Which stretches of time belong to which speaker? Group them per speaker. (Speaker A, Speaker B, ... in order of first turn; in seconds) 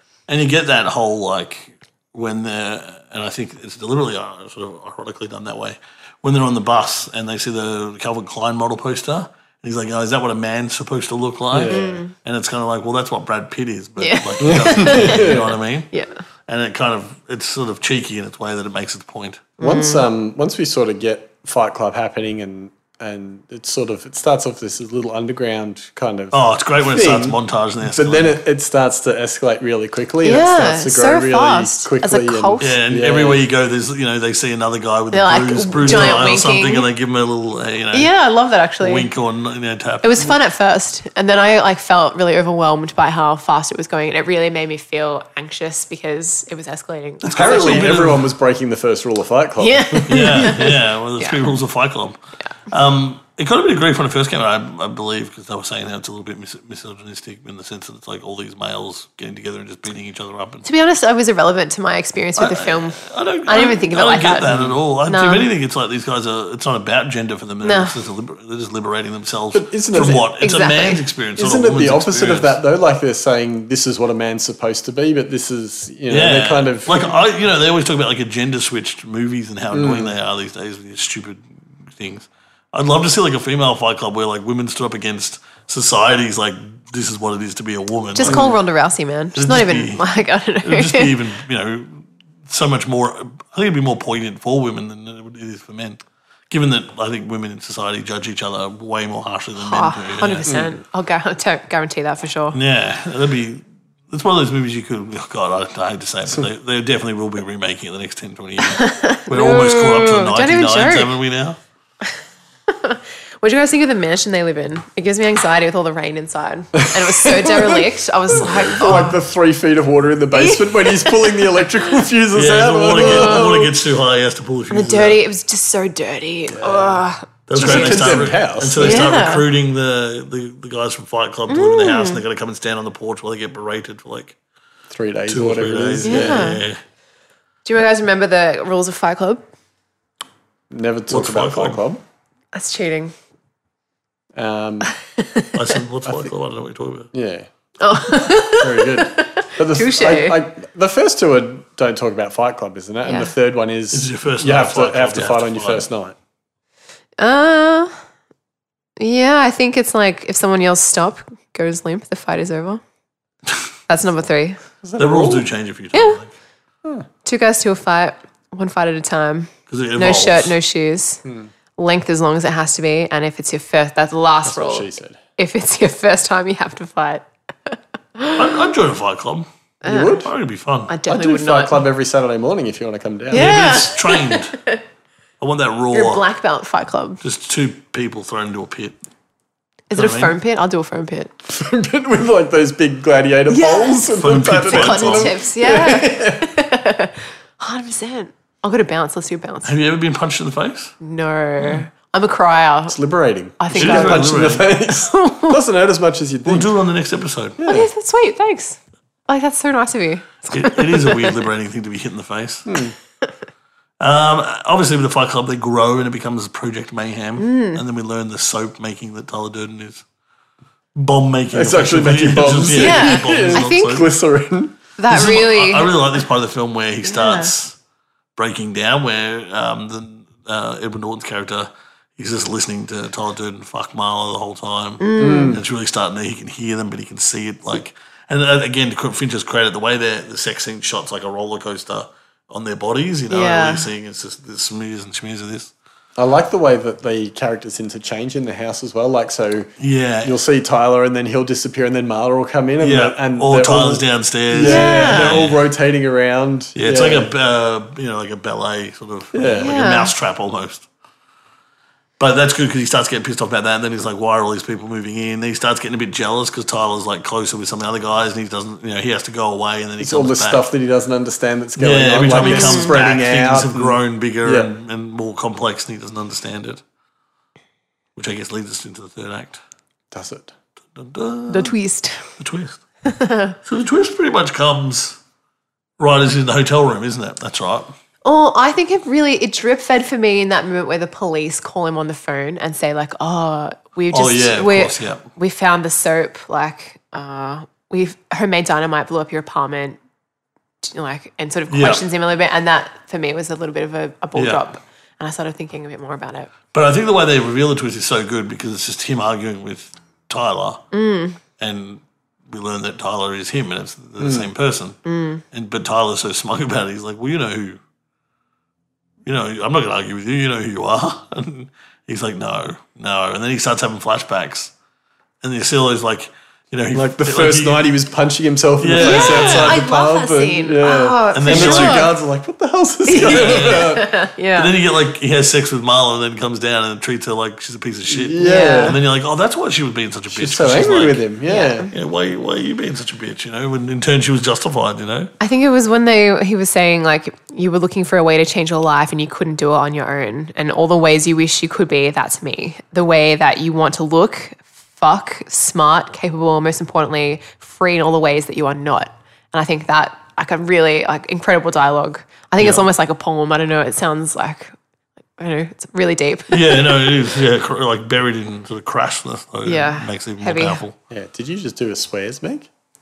Speaker A: 0.3-15.9, 16.5-19.5, 26.3-28.4, 32.6-38.1, 38.8-40.2, 47.2-48.3, 50.1-60.7, 62.4-72.6, 76.1-88.5, 89.3-90.1, 90.6-100.7, 102.5-111.6, 118.6-119.1, 122.3-125.2, 127.5-134.4, 135.3-136.8, 141.1-141.8, 145.5-147.1, 153.9-155.9, 165.0-166.3, 169.7-170.6, 178.3-179.5, 180.2-180.9, 183.3-184.6, 185.4-186.2, 187.2-189.0, 189.9-190.3, 194.1-195.4, 199.7-200.9, 203.7-204.7, 206.4-207.6, 210.5-212.8, 214.0-220.0, 220.9-224.1, 225.1-227.8, 228.4-245.7, 249.8-250.3, 252.8-255.6, 256.8-260.9, 262.2-270.7, 271.8-276.8, 278.2-279.6, 280.9-281.8, 282.4-282.8, 283.6-285.2, 286.0-287.9, 294.1-295.2, 301.7-302.0, 304.4-304.6, 306.7-310.9, 311.6-315.0, 315.5-317.8, 319.2-324.7, 325.4-327.9, 328.8-329.8, 331.3-332.1, 333.2-334.0, 334.6-341.2, 341.9-345.3, 362.6-362.9, 366.5-371.0
Speaker B: 11.5-12.0, 14.4-15.5, 19.6-33.4, 47.3-50.7, 64.5-64.8, 69.5-70.2, 71.4-77.0, 79.7-80.1, 88.2-88.6, 116.8-123.7, 126.5-127.0, 127.6-129.1, 134.9-136.5, 140.7-142.0, 144.3-144.9, 147.1-147.5, 148.6-156.2, 164.8-165.5, 171.2-171.5, 174.5-175.2, 179.8-180.3, 181.1-183.6, 191.4-196.5, 202.9-206.7, 207.6-207.9, 212.7-212.9, 221.5-224.8, 235.2-235.6, 246.2-249.7, 250.2-257.3, 259.3-259.7, 270.0-274.7, 280.1-280.5, 314.2-314.5, 326.9-334.1, 338.1-339.0, 340.3-341.9, 371.1-372.7
Speaker C: 11.7-12.1, 14.0-16.2, 19.6-20.1, 30.2-32.8, 35.1-36.9, 37.9-39.1, 40.0-48.0, 49.6-51.5, 60.6-64.5, 65.1-65.5, 67.6-68.0, 69.9-71.0, 88.2-91.1, 99.6-102.6, 108.6-111.1, 112.7-119.2, 120.3-121.6, 123.0-123.6, 124.7-128.2, 128.8-129.5, 131.5-132.2, 136.0-136.7, 137.7-139.4, 142.5-143.1, 145.0-145.5, 147.8-150.4, 153.0-153.3, 157.2-157.9, 159.0-162.8, 163.9-164.6, 165.9-166.2, 167.2-171.2, 171.8-178.6, 179.8-180.3, 180.9-181.8, 183.3-184.8, 185.9-187.2, 189.9-191.3, 193.5-194.1, 194.7-199.7, 201.0-203.0, 203.6-205.6, 207.7-211.4, 217.4-217.8, 222.7-224.0, 225.0-226.1, 227.0-227.5, 235.0-235.6, 243.3-243.9, 254.6-255.4, 259.5-260.1, 272.4-272.9, 281.5-282.3, 283.1-283.6, 288.2-300.0, 300.8-306.5, 310.9-311.4, 315.1-315.4, 329.0-332.1, 333.1-334.7, 338.4-339.0, 341.5-341.9, 345.4-364.7, 365.4-367.1, 369.6-370.8